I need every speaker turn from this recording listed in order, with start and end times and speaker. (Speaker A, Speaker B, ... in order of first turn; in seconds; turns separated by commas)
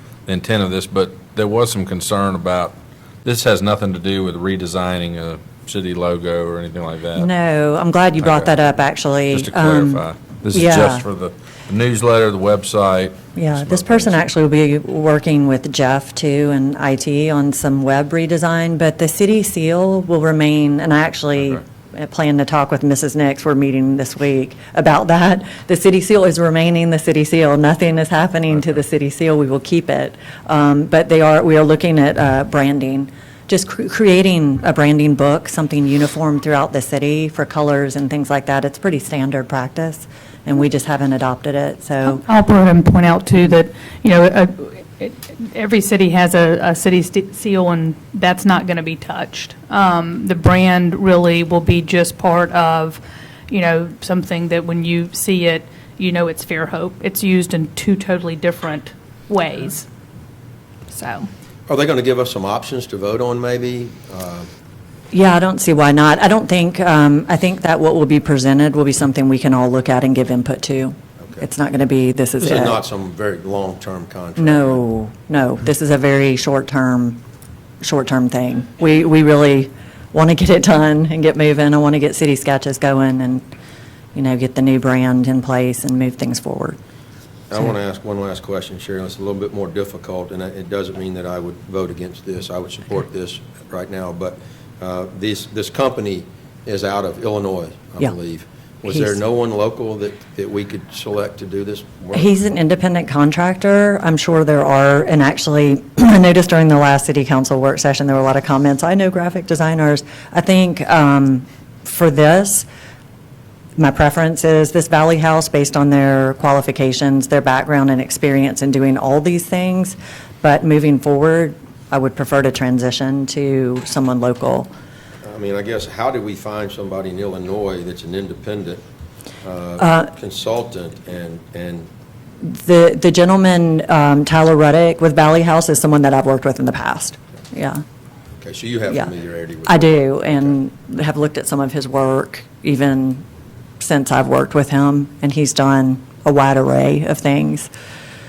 Speaker A: 0.2-7.3, Speaker B: 7.2-11.0, Speaker A: 8.2-8.5, Speaker A: 9.3-14.1, Speaker B: 13.3-42.2, Speaker C: 42.2-59.9, Speaker C: 60.9-61.3, Speaker D: 61.7-64.5, Speaker B: 65.1-72.8, Speaker D: 72.4-74.8, Speaker B: 74.4-77.2, Speaker B: 77.8-83.4, Speaker B: 84.1-86.8, Speaker D: 87.5-102.3, Speaker B: 102.1-112.7, Speaker B: 113.8-124.7, Speaker D: 125.2-128.8, Speaker D: 129.4-131.9, Speaker B: 129.8-130.1, Speaker B: 132.4-137.8, Speaker D: 138.4-140.6, Speaker B: 139.7-143.2, Speaker B: 143.8-147.7